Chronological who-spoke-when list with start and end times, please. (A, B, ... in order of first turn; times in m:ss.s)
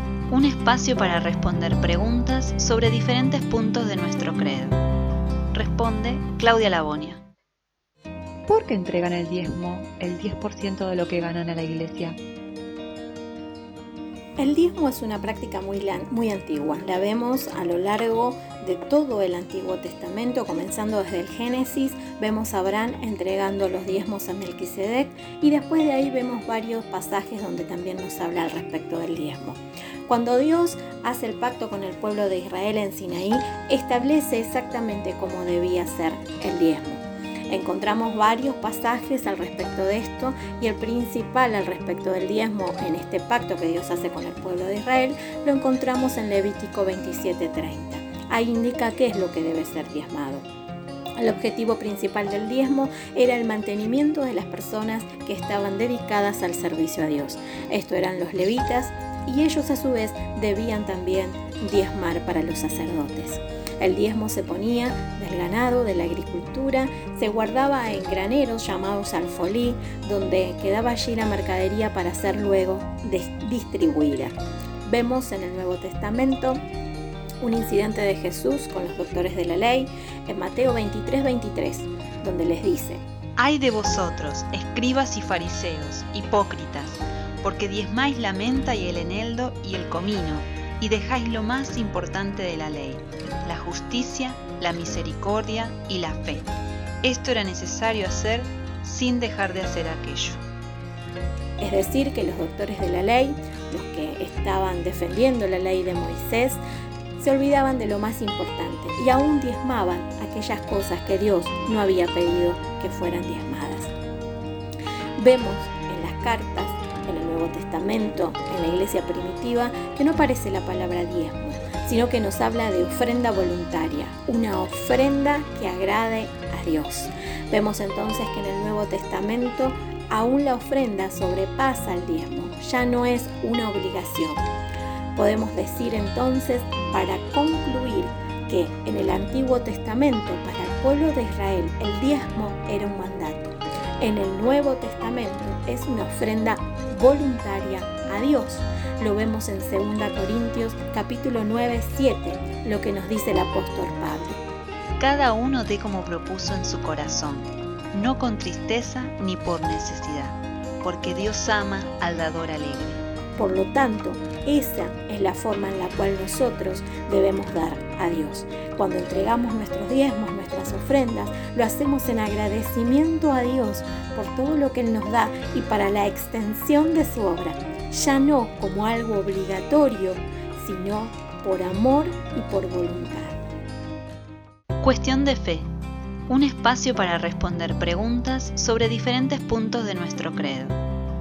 0:00.3-0:04.8 A
0:05.5-0:07.2 A
0:08.5-0:12.2 B
0:14.4-0:50.5 C
0:51.2-1:16.6 C
1:17.4-1:23.0 C
1:23.4-1:36.5 A
1:37.0-1:40.4 A
1:41.6-1:46.6 C
1:47.2-1:53.9 C
1:55.2-2:14.4 C
2:15.2-2:34.4 C
2:35.0-2:43.0 A
2:43.4-3:03.4 C
3:04.8-3:05.7 A
3:06.3-3:10.8 A